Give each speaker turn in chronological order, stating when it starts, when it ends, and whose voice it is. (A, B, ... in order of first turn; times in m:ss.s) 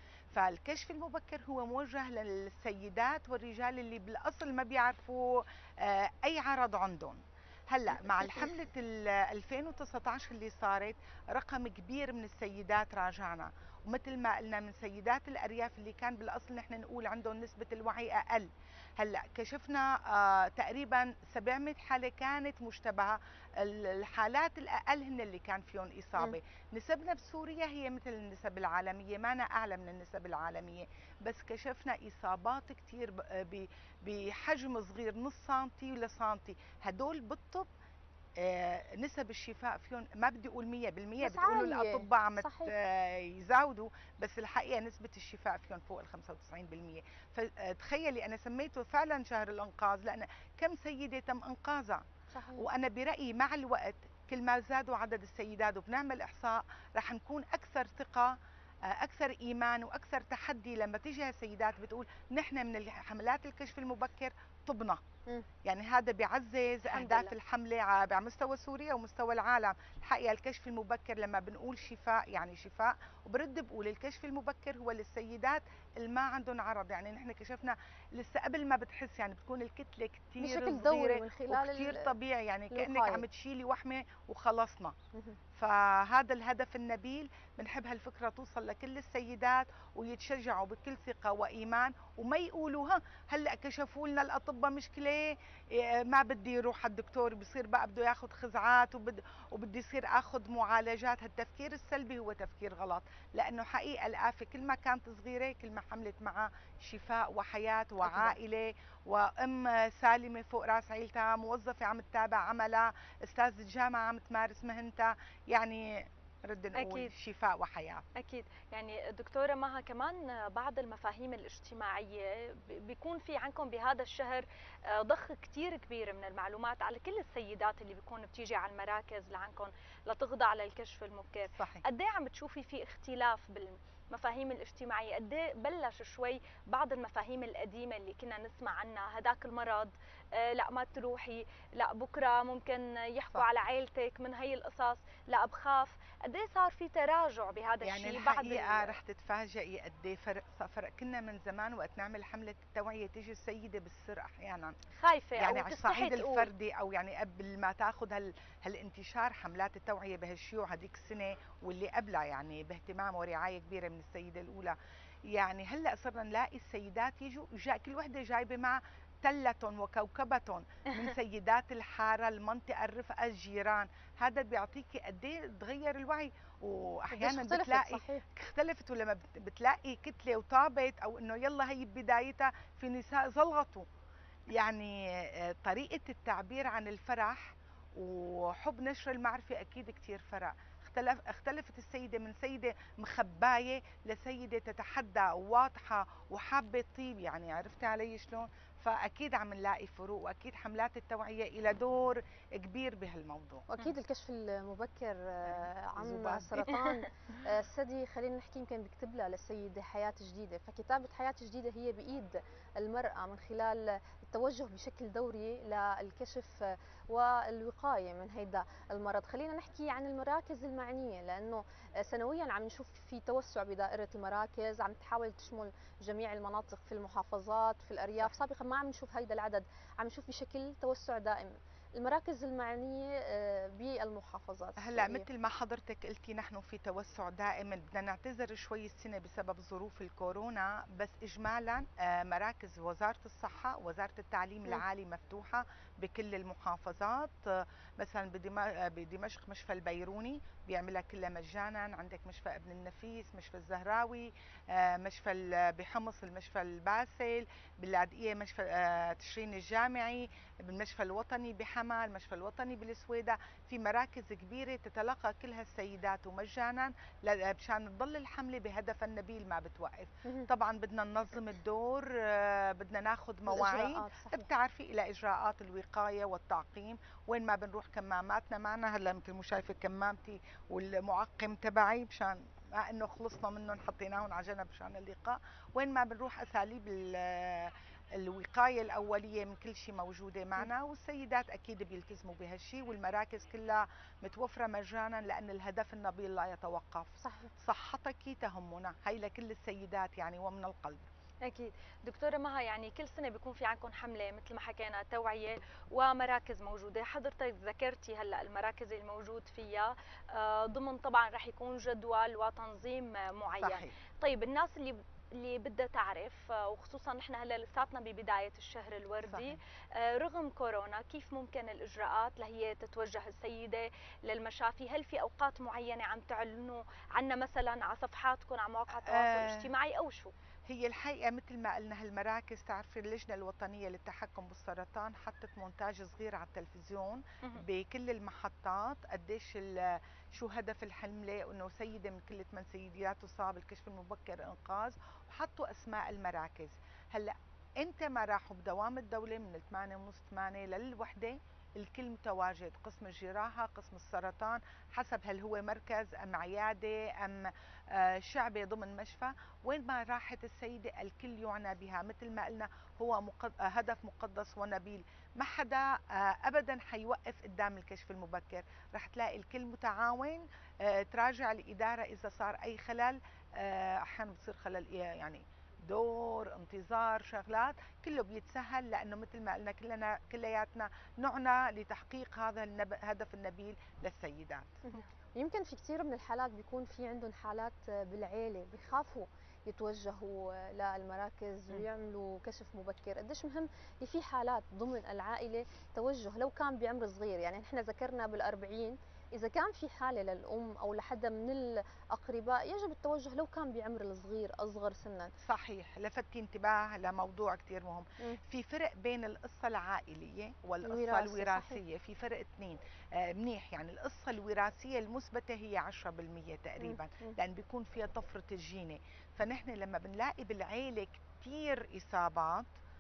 0:00.3-0:37.7 A
0:38.4-0:52.0 A
0:41.2-0:42.7 B
0:52.3-0:52.6 B
0:52.6-0:58.4 A
0:58.9-1:05.0 A
1:05.6-1:24.9 A
1:20.4-1:22.1 B
1:22.7-1:23.2 B
1:25.6-1:58.0 A
1:48.0-1:48.3 B
1:56.8-1:57.1 C
1:58.2-2:29.0 C
2:11.6-2:11.8 A
2:27.8-2:34.8 A
2:35.0-2:36.5 C
2:35.4-2:44.8 A
2:45.3-3:03.8 A
2:57.1-2:58.2 B
3:04.5-3:23.7 A
3:23.7-3:55.2 B
3:25.4-3:26.8 A
3:26.7-3:27.0 C
3:54.8-5:01.0 A
4:33.5-4:34.5 B
4:57.2-4:57.5 B
5:01.5-5:30.3 C
5:13.6-5:13.9 A
5:19.2-5:19.6 A
5:29.0-5:29.7 A
5:30.7-6:24.6 A
6:25.4-6:45.3 B
6:45.4-7:02.7 A
6:50.8-6:51.8 B
6:56.8-6:57.4 B